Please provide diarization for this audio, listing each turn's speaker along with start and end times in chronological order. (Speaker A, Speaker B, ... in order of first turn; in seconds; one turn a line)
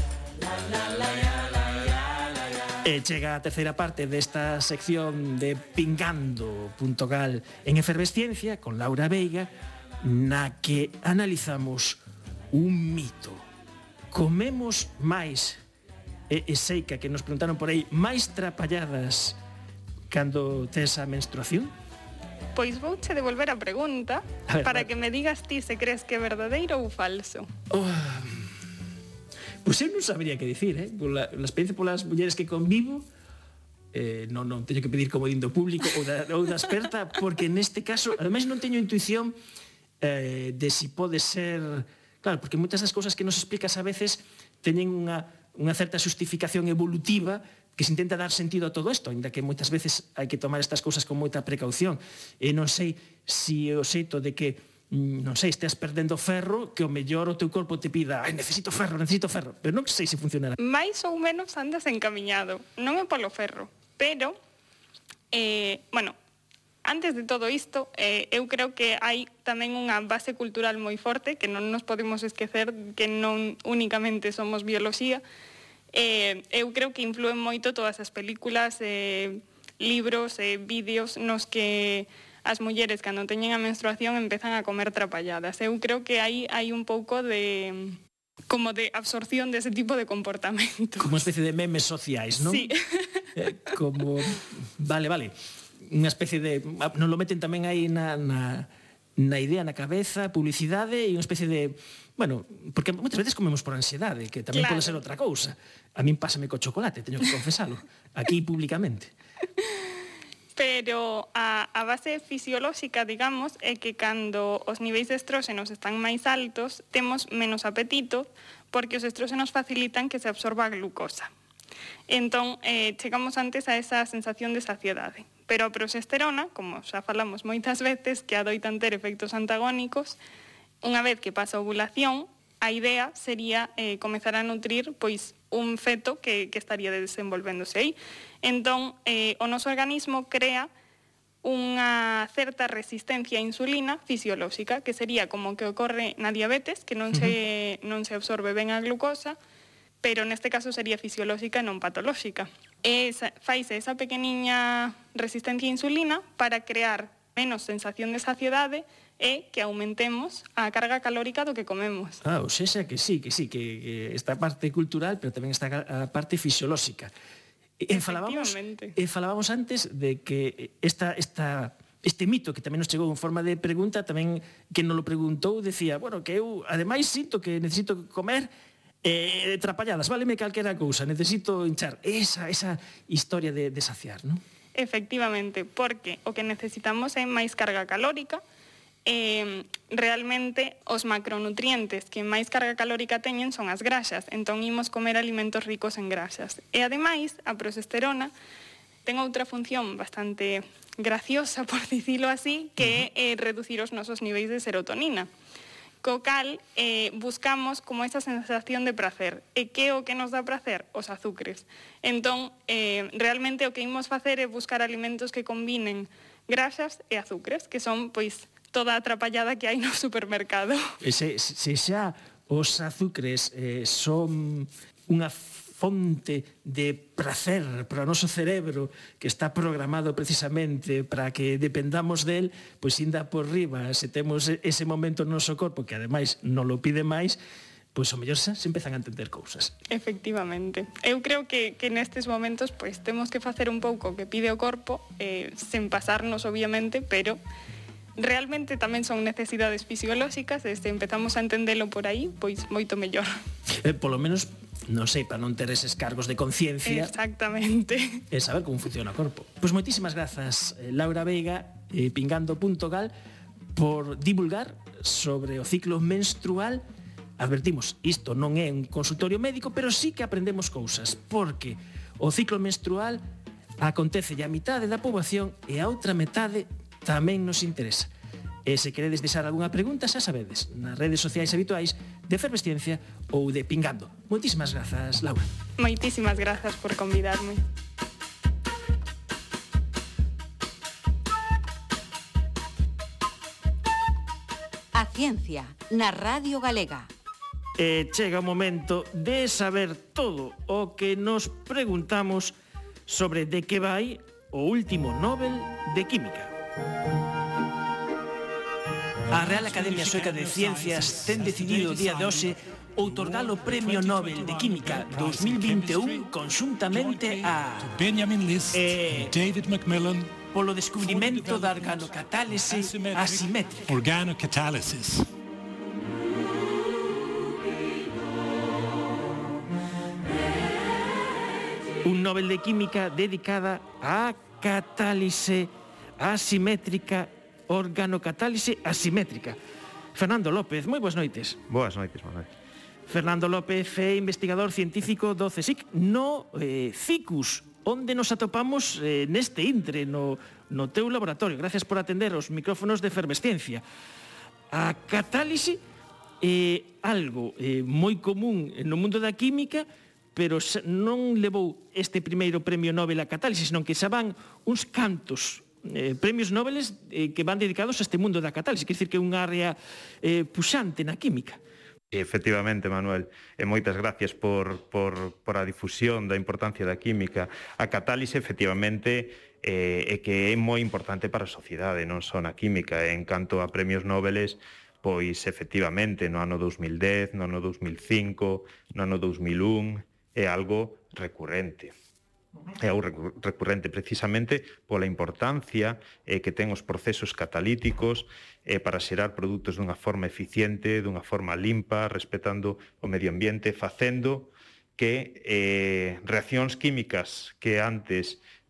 Speaker A: 2.8-9.5
Speaker A: 10.0-12.0
Speaker A: 12.5-13.4
Speaker A: 14.1-15.6
Speaker A: 16.3-19.4
Speaker A: 20.1-21.7
Speaker B: 22.6-27.5
Speaker A: 24.5-24.9
Speaker A: 27.7-28.5
Speaker A: 29.6-33.0
Speaker A: 33.9-39.4
Speaker A: 40.0-60.5
Speaker B: 60.6-64.4
Speaker B: 65.3-66.2
Speaker B: 66.8-75.2
Speaker B: 75.9-88.0
Speaker B: 88.5-91.2
Speaker A: 91.0-92.7
Speaker B: 92.5-93.3
Speaker A: 93.3-109.1
Speaker B: 104.5-105.0
Speaker B: 110.6-121.3
Speaker B: 122.1-130.2
Speaker B: 130.8-140.7
Speaker B: 141.4-149.4
Speaker B: 150.0-162.2
Speaker A: 162.2-167.1
Speaker A: 167.8-178.5
Speaker B: 167.9-168.9
Speaker A: 179.0-184.4
Speaker B: 184.8-188.4
Speaker B: 189.1-198.3
Speaker B: 199.1-205.3
Speaker B: 206.0-220.8
Speaker A: 221.0-237.4
Speaker A: 237.9-239.7
Speaker B: 239.9-247.4
Speaker B: 248.2-253.3
Speaker A: 253.8-257.1
Speaker B: 256.9-258.2
Speaker A: 258.3-263.1
Speaker A: 263.8-266.8
Speaker A: 267.4-273.2
Speaker A: 273.8-278.1
Speaker A: 278.7-285.5
Speaker B: 285.8-287.6
Speaker C: 294.9-297.1
Speaker A: 297.8-302.6
Speaker A: 303.1-306.5
Speaker A: 309.3-318.0
Speaker D: 309.3-316.3
Speaker D: 316.9-320.3
Speaker A: 318.7-319.3
Speaker A: 320.5-324.0
Speaker D: 321.0-322.1
Speaker D: 322.6-325.3
Speaker A: 332.0-339.6
Speaker A: 340.1-341.6
Speaker E: 341.7-342.5
Speaker A: 343.1-353.8
Speaker A: 354.7-355.8
Speaker A: 356.4-371.6
Speaker E: 372.1-391.9
Speaker E: 392.7-408.4